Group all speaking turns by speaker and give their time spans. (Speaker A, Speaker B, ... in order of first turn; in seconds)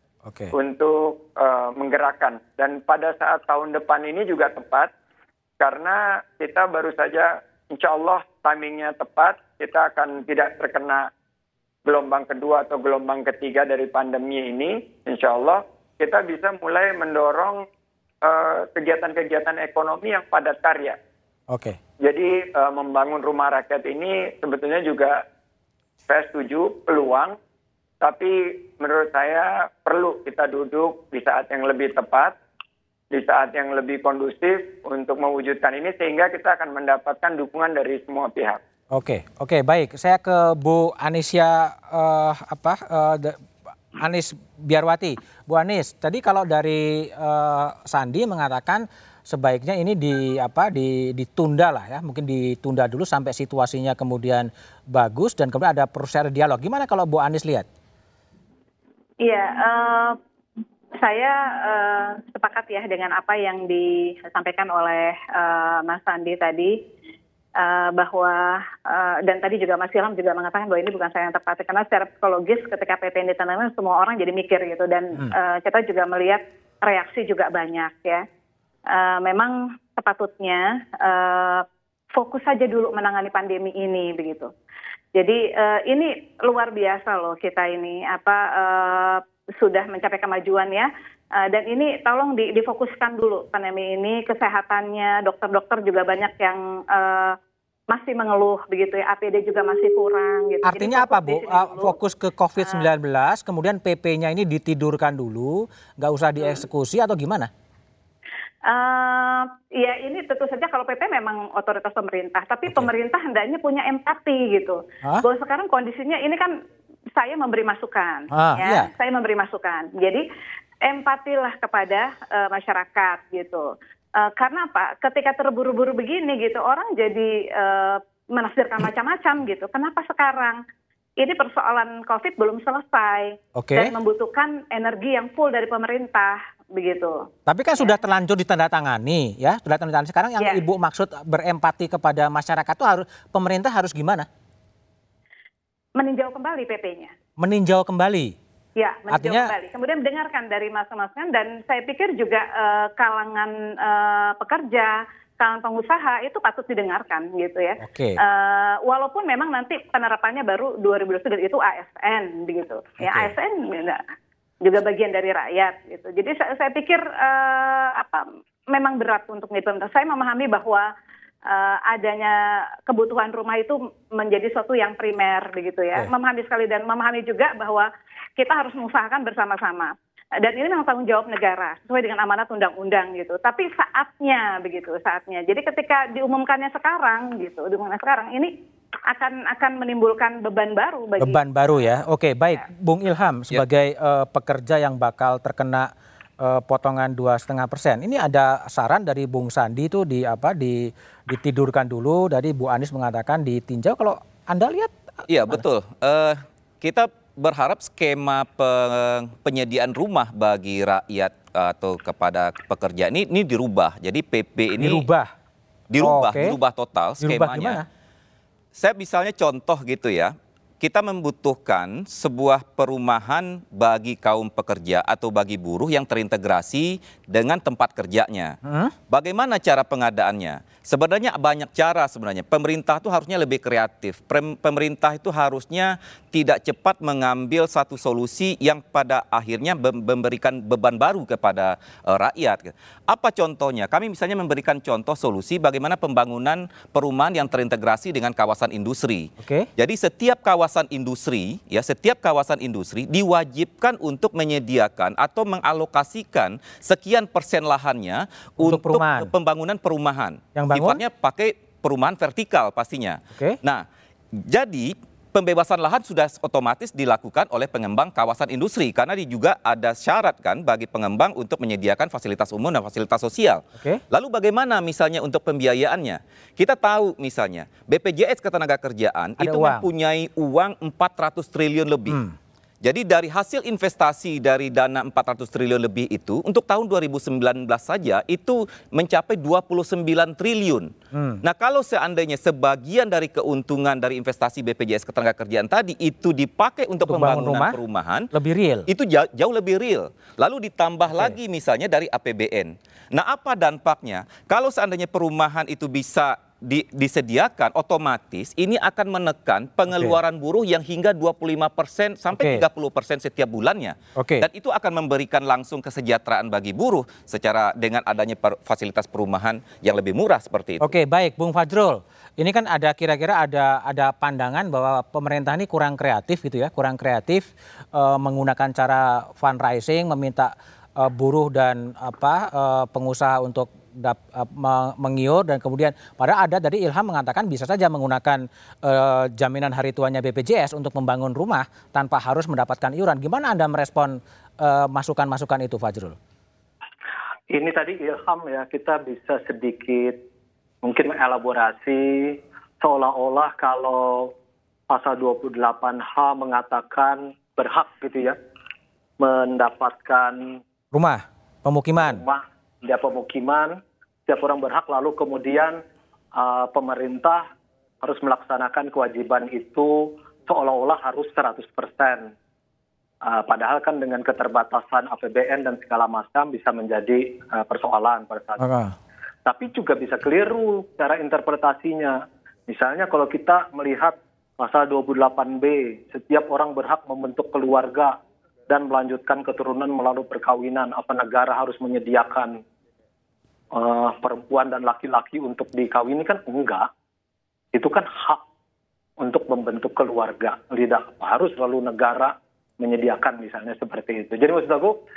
Speaker A: 0.3-0.5, 21.5-21.8, 38.9-43.4, 44.0-57.6, 100.6-107.5, 118.3-118.9, 133.6-133.9, 137.5-144.3, 147.4-148.3, 149.1-149.5, 157.8-158.2, 163.0-163.3, 191.2-195.9, 196.4-204.9, 214.8-215.3, 216.0-216.6, 217.2-217.8, 228.6-228.9, 249.4-249.7, 258.6-259.3, 260.5-261.0, 279.4-279.9, 282.1-282.4, 291.1-291.4, 297.1-297.8, 298.3-298.9, 301.1-301.4, 309.9-310.2, 312.3-312.6, 314.1-314.4, 320.8-346.1, 360.9-362.2, 378.6-378.9
Speaker B: 0.5-4.9, 5.6-11.1, 11.8-17.6, 18.2-21.0, 22.0-25.2, 26.1-27.4, 28.0-32.4, 33.1-38.6
Speaker C: 59.2-60.2, 61.0-66.8, 67.6-78.2, 78.9-84.5, 85.1-97.4, 97.9-102.0, 102.6-102.9, 108.6-116.5, 117.2-120.2, 120.8-130.6, 131.2-138.0, 146.0-147.1, 148.8-164.0, 164.6-170.9, 171.4-188.5, 189.1-191.9
Speaker D: 205.3-215.1, 215.9-217.8, 218.7-228.6, 229.1-263.8, 264.4-282.2, 282.8-290.9, 291.4-298.3, 298.9-320.9
Speaker E: 347.5-350.2, 350.8-354.3, 354.9-358.4, 359.2-360.6, 362.0-365.8, 366.3-367.4, 368.0-372.3, 373.2-378.7, 379.4-392.6, 393.7-396.9, 397.7-398.4, 399.2-405.0